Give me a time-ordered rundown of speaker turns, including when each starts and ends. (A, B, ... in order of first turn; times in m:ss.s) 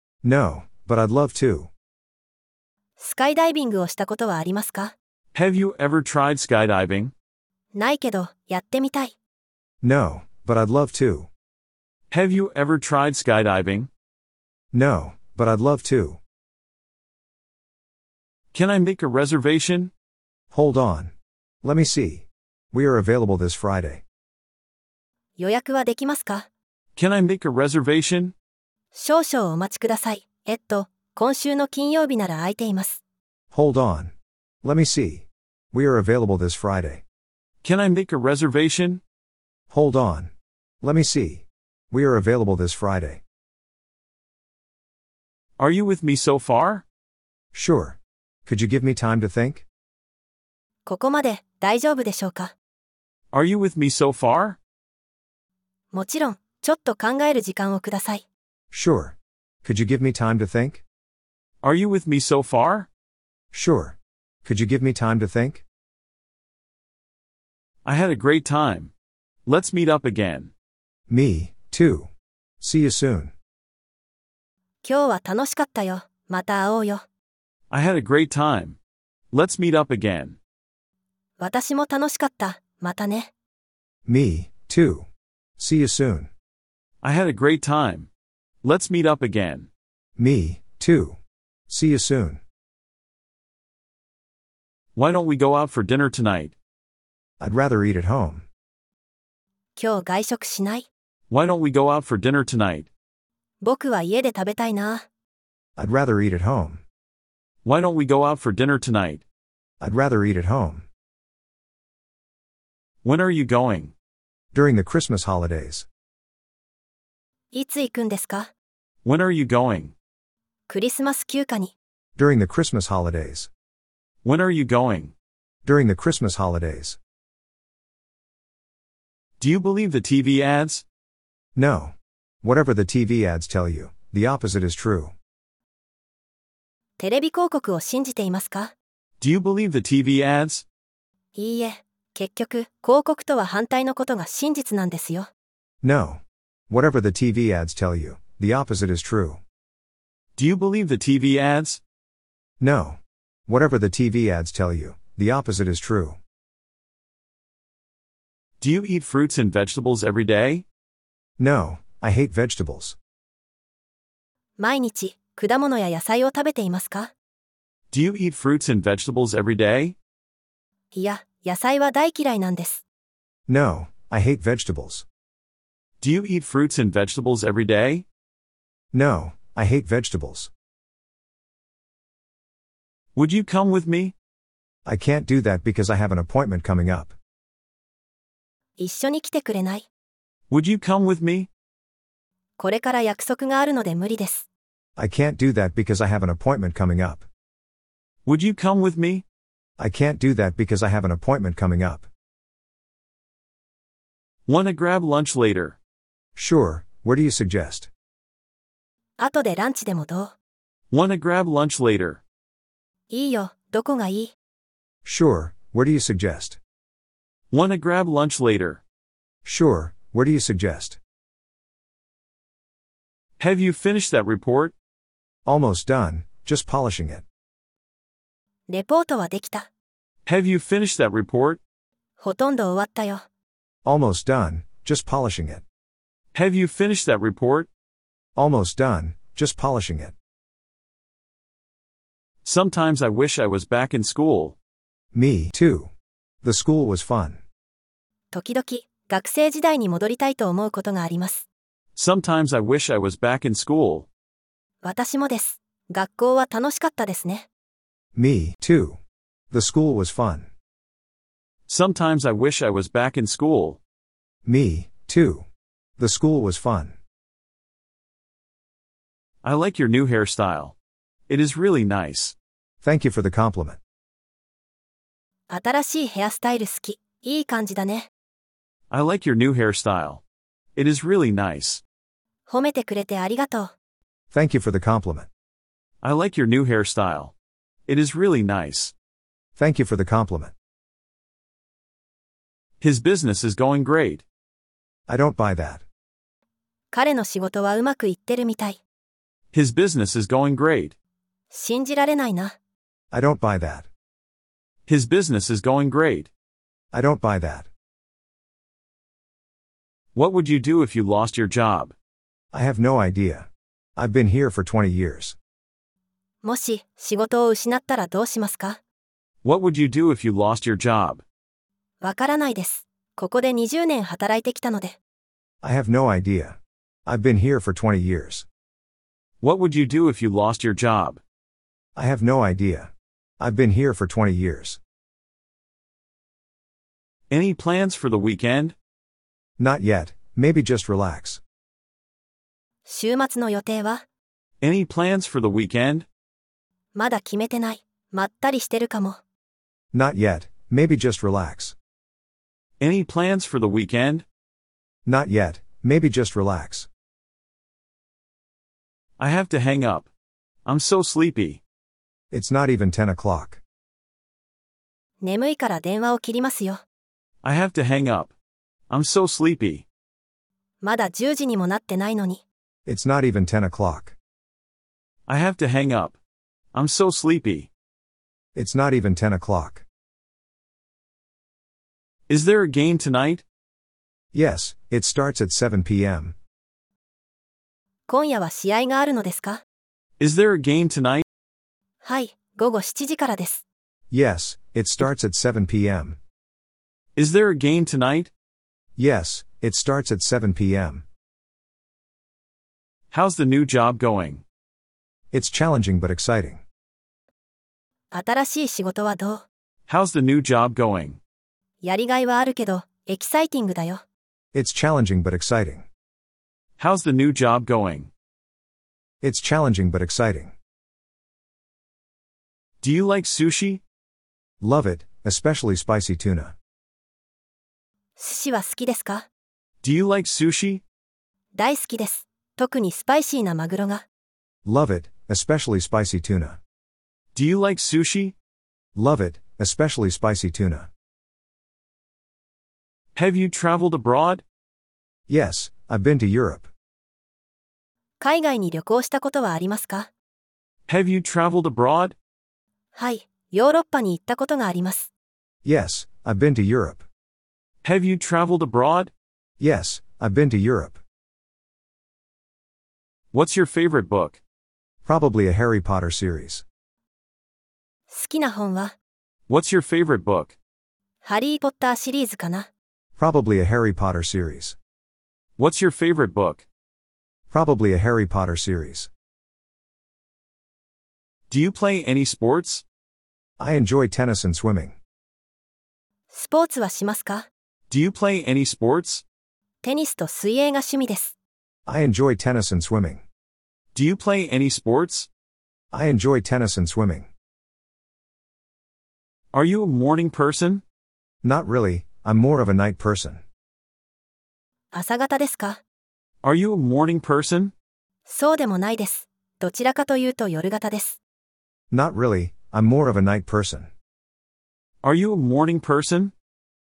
0:00.2-0:01.7 A
0:03.0-0:04.9 B
0:05.3-0:07.1 C
0:07.7-0:09.1 B
0:09.8-0:11.3 A
0:12.1-0:13.9 C
0:14.7-0:16.2 A
0:18.5-0:19.9 C
0:20.5-0:21.1 A
0:21.6-0:24.0 A
0:25.4-0:26.5 B
0:27.0-0:28.3 C
0:28.9-0:33.0 B
0:33.5-0:34.1 A
0:34.6-0:37.0 A
0:37.6-0:39.0 C
0:39.7-0:43.2 A
0:45.6-0:46.8 C
0:47.5-0:49.6 A
0:50.8-0:52.5 B
0:53.3-0:54.6 C
0:55.9-0:58.2 B
0:58.7-1:00.8 A
1:01.6-1:02.9 C
1:03.5-1:05.6 A
1:07.8-1:08.9 C
1:09.4-1:10.5 C
1:11.1-1:12.1 A
1:12.6-1:13.3 A
1:14.8-1:17.0 B
1:17.7-1:18.8 C
1:19.3-1:20.4 C
1:21.4-1:23.3 B
1:24.0-1:25.0 A
1:25.6-1:26.3 A
1:27.0-1:28.1 C
1:28.6-1:29.7 C
1:30.2-1:31.2 A
1:31.7-1:32.4 A
1:34.9-1:36.5 C
1:37.4-1:38.4 A
1:39.8-1:40.9 B
1:41.3-1:42.9 C
1:43.6-1:45.0 B
1:45.8-1:46.8 A
1:47.6-1:49.2 C
1:49.8-1:50.8 A
1:53.0-1:53.9 C
1:54.5-1:55.8 A
1:57.5-1:58.5 B
1:59.0-1:59.9 C
2:00.7-2:01.7 B
2:02.2-2:03.5 A
2:04.2-2:05.1 C
2:05.6-2:07.0 A
2:09.4-2:10.8 C
2:11.6-2:15.1 A
2:17.0-2:18.7 B
2:19.2-2:20.6 C
2:21.3-2:25.3 B
2:25.8-2:29.4 A
2:30.4-2:31.8 C
2:32.6-2:36.2 A
2:38.6-2:40.6 C
2:41.4-2:43.0 A
2:44.6-2:47.1 B
2:47.9-2:50.0 C
2:50.9-2:52.8 B
2:53.5-2:55.0 A
2:56.0-2:58.0 C
2:58.9-3:00.5 A
3:03.2-3:04.1 C
3:04.8-3:07.1 A
3:08.8-3:09.9 B
3:10.5-3:11.5 C
3:12.6-3:14.5 B
3:15.0-3:17.2 A
3:18.2-3:19.2 C
3:19.8-3:22.1 A
3:24.5-3:25.8 C
3:26.4-3:27.9 A
3:29.2-3:30.3 B
3:30.9-3:32.2 C
3:33.1-3:34.3 B
3:35.0-3:36.6 A
3:37.5-3:38.8 C
3:39.4-3:41.0 A
3:43.4-3:44.7 C
3:45.4-3:47.2 A
3:48.7-3:49.7 B
3:50.2-3:51.6 C
3:52.2-3:53.2 B
3:53.8-3:55.6 A
3:56.3-3:57.7 C
3:58.4-4:00.1 A
4:02.4-4:04.6 C
4:05.1-4:05.9 A
4:06.4-4:07.4 A
4:08.3-4:11.4 B
4:12.0-4:14.1 C
4:14.8-4:17.5 B
4:18.1-4:19.0 A
4:19.5-4:20.5 A
4:21.7-4:23.8 C
4:24.4-4:25.4 A
4:26.0-4:27.0 A
4:29.4-4:30.7 C
4:31.3-4:32.3 C
4:32.8-4:33.8 A
4:35.5-4:38.1 B
4:38.9-4:40.2 C
4:40.8-4:41.8 C
4:42.5-4:43.7 B
4:44.3-4:45.3 A
4:46.0-4:47.3 C
4:47.9-4:48.9 C
4:49.6-4:50.5 A
4:52.8-4:54.2 C
4:55.1-4:55.8 A
4:56.9-4:58.8 B
4:59.5-5:00.9 C
5:01.5-5:02.5 B
5:03.1-5:03.9 A
5:04.9-5:06.3 C
5:06.9-5:07.7 A
5:10.1-5:11.9 C
5:12.5-5:15.4 A
5:16.4-5:18.8 B
5:19.4-5:21.2 C
5:22.0-5:25.0 B
5:25.6-5:28.4 A
5:29.4-5:31.2 C
5:32.0-5:34.8 A
5:37.3-5:38.7 C
5:39.6-5:41.4 A
5:42.8-5:44.0 B
5:44.6-5:46.0 C
5:46.9-5:49.2 B
5:49.9-5:51.7 A
5:52.8-5:54.2 C
5:55.0-5:56.9 A
5:59.2-6:00.1 C
6:00.6-6:01.6 C
6:02.3-6:03.6 A
6:05.2-6:06.8 B
6:07.4-6:08.3 C
6:08.9-6:09.8 C
6:10.8-6:12.4 B
6:12.8-6:14.1 A
6:15.3-6:16.2 C
6:16.7-6:17.7 C
6:18.5-6:19.8 A
6:22.3-6:23.4 C
6:24.3-6:26.3 A
6:28.1-6:29.6 B
6:30.2-6:31.2 C
6:32.0-6:33.6 B
6:34.1-6:36.2 A
6:37.2-6:38.3 C
6:39.0-6:41.0 A
6:43.1-6:44.4 C
6:45.3-6:46.6 A
6:48.1-6:49.4 B
6:49.9-6:51.2 C
6:51.8-6:54.0 B
6:54.5-6:55.8 A
6:56.8-6:58.1 C
6:59.2-7:00.5 A
7:02.8-7:03.8 C
7:04.6-7:06.5 A
7:08.2-7:09.2 B
7:09.8-7:10.8 C
7:11.5-7:14.0 B
7:14.6-7:16.6 A
7:17.3-7:18.3 C
7:18.9-7:20.9 A
7:23.1-7:24.4 C
7:25.3-7:26.7 A
7:28.2-7:30.1 B
7:30.9-7:32.1 C
7:33.0-7:35.1 B
7:35.6-7:37.0 A
7:37.8-7:39.1 C
7:39.6-7:41.0 A
7:43.3-7:44.4 C
7:45.0-7:46.6 A
7:48.1-7:48.9 B
7:49.5-7:50.6 C
7:51.2-7:52.7 B
7:53.2-7:54.8 A
7:55.6-7:56.6 C
7:57.5-7:59.1 A
8:01.5-8:02.8 C
8:03.6-8:05.0 A
8:06.3-8:07.5 B
8:07.9-8:09.2 C
8:09.8-8:11.3 B
8:11.9-8:13.2 A
8:13.9-8:15.3 C
8:15.9-8:17.3 A
8:19.5-8:20.8 C
8:21.4-8:23.4 A
8:24.9-8:25.8 B
8:26.4-8:27.7 C
8:28.3-8:31.2 B
8:31.9-8:33.9 A
8:35.0-8:36.3 C